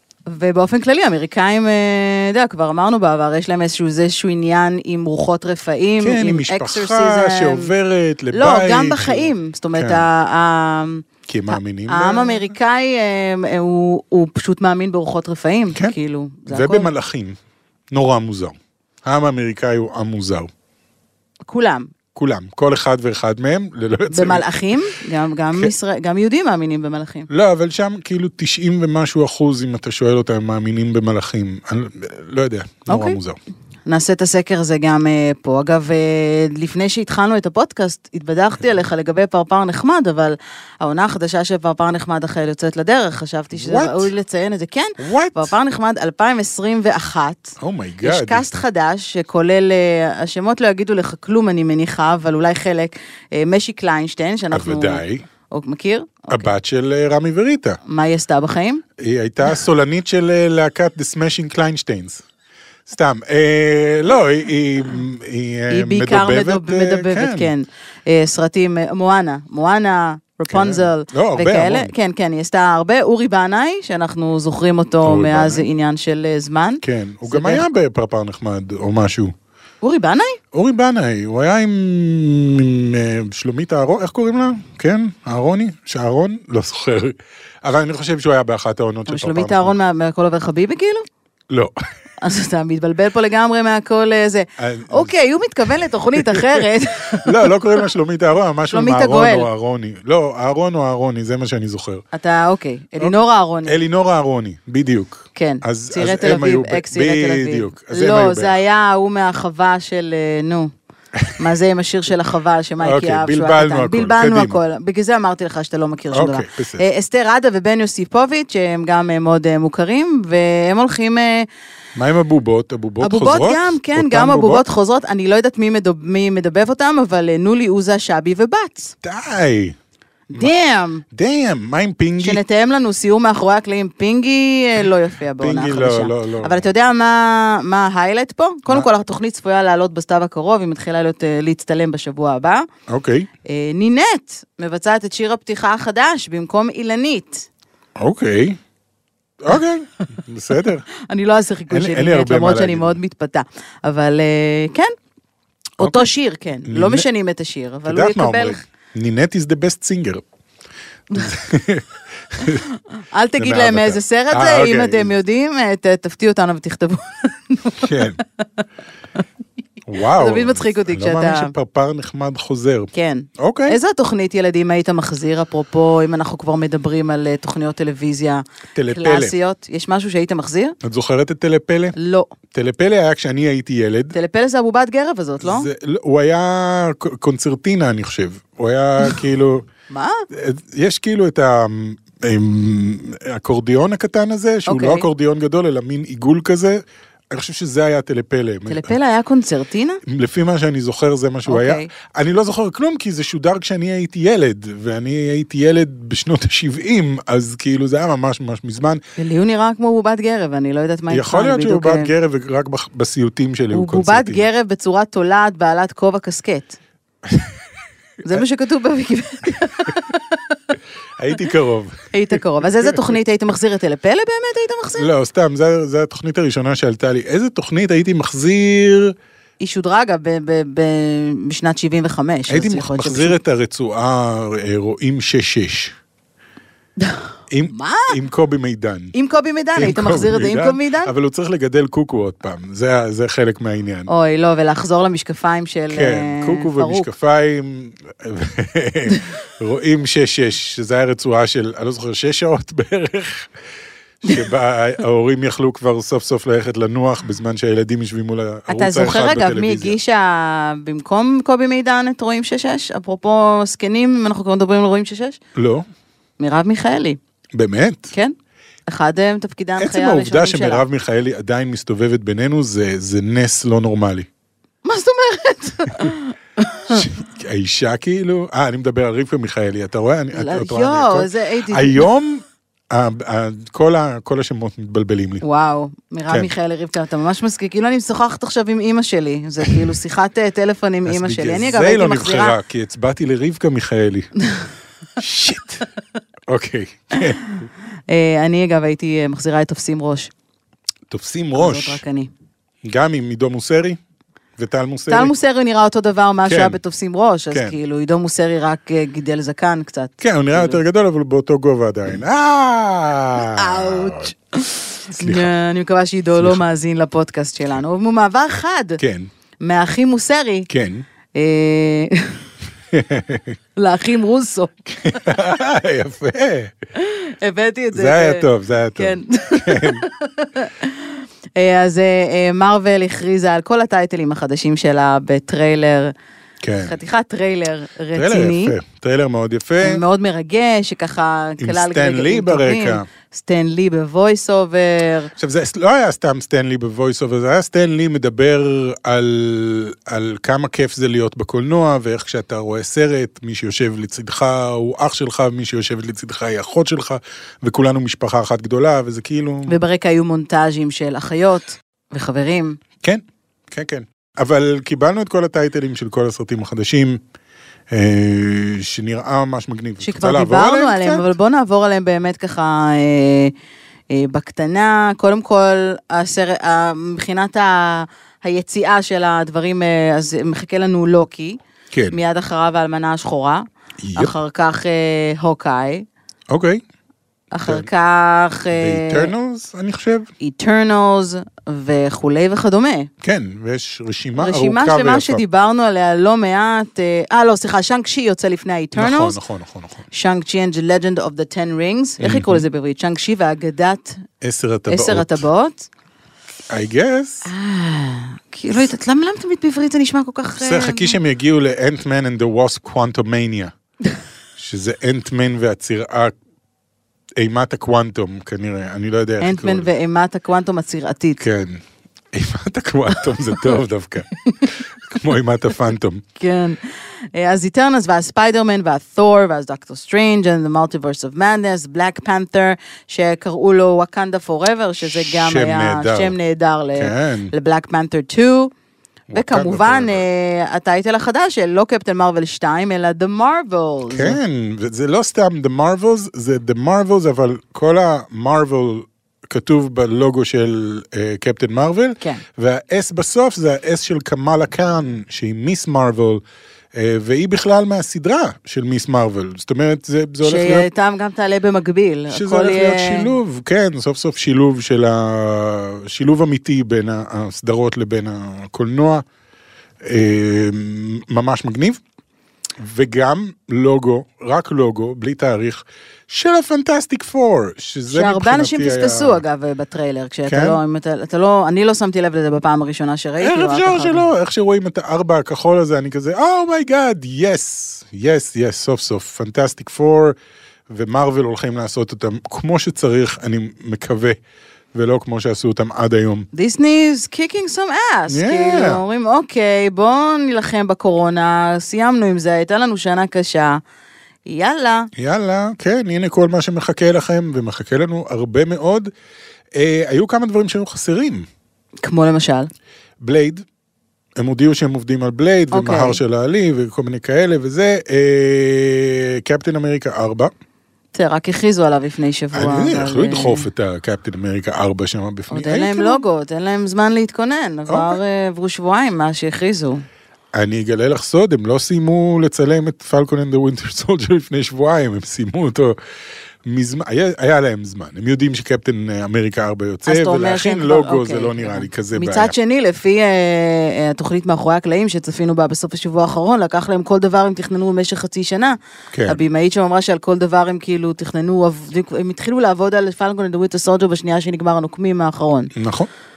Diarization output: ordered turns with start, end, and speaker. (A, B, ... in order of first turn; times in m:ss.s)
0:00.3-0:07.7 A
0:06.0-0:10.1 B
0:08.3-0:16.9 A
0:11.3-0:12.5 B
0:16.5-0:17.4 B
0:17.9-0:20.5 B
0:21.5-0:21.9 A
0:22.1-0:24.8 B
0:24.1-0:27.3 A
0:27.3-0:33.4 B
0:32.9-0:33.2 A
0:33.9-0:56.5 A
0:43.6-0:44.1 B
0:45.0-0:45.5 B
0:47.6-0:48.5 B
0:54.5-0:55.2 B
0:56.3-0:57.8 B
0:57.8-0:58.8 A
0:59.0-1:02.2 B
1:02.9-1:07.5 B
1:05.7-1:17.6 A
1:10.5-1:11.9 B
1:15.0-1:15.7 B
1:16.8-1:19.3 B
1:19.8-1:20.4 A
1:20.5-1:29.8 B
1:29.1-1:31.0 A
1:31.5-1:31.8 B
1:32.2-1:37.5 A
1:34.6-1:35.1 B
1:36.2-1:42.0 B
1:38.7-1:39.5 A
1:42.1-1:43.8 A
1:43.7-1:48.6 B
1:45.4-1:50.7 A
1:51.4-2:01.5 A
1:52.8-1:54.6 B
1:56.1-1:56.8 B
2:02.0-2:04.6 B
2:03.0-2:08.9 A
2:09.0-2:09.8 B
2:10.3-2:11.0 A
2:11.1-2:12.4 B
2:12.2-2:22.7 A
2:15.4-2:16.7 B
2:22.9-2:23.3 B
2:23.4-2:27.5 A
2:28.0-2:28.6 B
2:29.4-2:30.9 B
2:31.0-2:34.9 A
2:31.7-2:33.0 B
2:35.8-2:38.6 A
2:35.8-2:36.1 B
2:36.7-2:37.1 B
2:37.9-2:40.2 B
2:41.1-2:42.7 B
2:42.5-2:48.6 A
2:43.4-2:45.1 B
2:47.8-2:48.2 B
2:49.9-2:53.8 B
2:50.0-2:51.5 A
2:52.9-3:00.8 A
2:58.8-2:59.4 B
3:00.8-3:02.0 B
3:02.0-3:02.3 A
3:02.5-3:04.2 B
3:04.1-3:05.7 A
3:05.4-3:09.7 B
3:09.9-3:10.3 A
3:10.3-3:19.0 B
3:14.7-3:15.1 A
3:18.7-3:20.0 A
3:20.1-3:29.0 B
3:21.5-3:21.9 A
3:29.2-3:32.1 A
3:31.1-3:34.4 B
3:33.7-3:36.8 A
3:37.2-3:37.6 B
3:38.2-3:40.7 A
3:41.2-3:43.2 B
3:42.1-3:45.1 A
3:45.0-3:49.2 B
3:49.6-3:53.4 A
3:52.5-3:56.0 B
3:57.0-3:58.2 A
3:57.5-3:59.1 B
3:59.1-4:01.1 A
3:59.8-4:04.1 B
4:04.1-4:07.1 A
4:05.9-4:13.5 B
4:14.2-4:20.0 B
4:18.7-4:25.4 A
4:25.6-4:25.9 B
4:26.4-4:27.2 A
4:27.5-4:28.1 B
4:28.9-4:30.8 A
4:29.8-4:34.3 B
4:34.8-4:37.1 A
4:36.9-4:45.4 B
4:40.3-4:42.1 A
4:45.4-4:52.6 A
4:51.1-4:54.3 B
4:55.2-4:55.8 B
4:56.5-4:57.5 B
4:58.1-5:00.3 A
5:01.1-5:02.0 B
5:01.6-5:02.3 A
5:02.8-5:04.0 B
5:04.6-5:05.3 B
5:05.1-5:10.8 A
5:06.5-5:06.8 B
5:10.2-5:14.3 B
5:13.4-5:19.0 A
5:15.1-5:15.5 B
5:16.4-5:16.6 B
5:19.0-5:19.3 B
5:19.6-5:20.7 A
5:20.7-5:21.1 B
5:21.3-5:22.5 A
5:22.9-5:23.6 B
5:23.8-5:24.8 A
5:24.9-5:26.7 B
5:27.0-5:36.1 A
5:27.9-5:30.1 B
5:36.6-5:37.0 B
5:36.8-5:38.8 A
5:38.1-5:40.0 B
5:39.8-5:45.3 A
5:41.6-5:43.1 B
5:45.4-5:59.7 B
5:59.7-6:02.8 A
6:03.0-6:07.2 B
6:07.9-6:11.3 B
6:10.0-6:13.5 A
6:14.1-6:21.6 A
6:21.9-6:22.2 B
6:22.1-6:26.1 A
6:24.0-6:24.3 B
6:26.5-6:26.8 B
6:27.5-6:29.3 A
6:28.7-6:30.3 B
6:30.4-6:33.1 A
6:33.2-6:35.4 B
6:34.4-6:39.4 A
6:39.0-6:40.1 B
6:40.1-6:44.2 A
6:42.2-6:42.6 B
6:44.4-6:45.4 B
6:44.9-6:45.9 A
6:46.7-6:47.5 B
6:47.4-6:51.2 A
6:50.6-6:53.7 B
6:54.6-6:56.4 B
6:57.4-6:59.9 B
6:59.4-7:01.4 A
7:01.4-7:06.2 B
7:06.4-7:06.8 A
7:07.3-7:18.7 A
7:15.0-7:16.4 B
7:17.0-7:17.5 B
7:19.3-7:20.2 B
7:19.3-7:24.4 A
7:24.1-7:36.4 B
7:36.9-7:40.9 B
7:40.4-7:43.4 A
7:42.3-7:49.2 B
7:50.0-7:52.0 B
7:52.8-7:59.4 B
7:58.1-8:04.2 A
8:00.5-8:00.8 B
8:03.4-8:10.4 B
8:10.9-8:14.4 B
8:14.9-8:16.5 B
8:16.5-8:23.8 A
8:18.3-8:19.0 B
8:24.4-8:25.1 A
8:25.2-8:29.1 B
8:29.7-8:31.5 B
8:32.0-8:32.7 A
8:33.2-8:33.6 B
8:34.4-8:40.5 B
8:35.7-8:36.2 A
8:41.1-8:43.7 A
8:42.5-8:46.2 B
8:45.5-8:50.0 A
8:47.9-8:48.2 B
8:50.5-8:56.0 B
8:56.6-9:02.5 B
9:00.1-9:15.7 A
9:09.1-9:09.4 B
9:15.8-9:16.1 B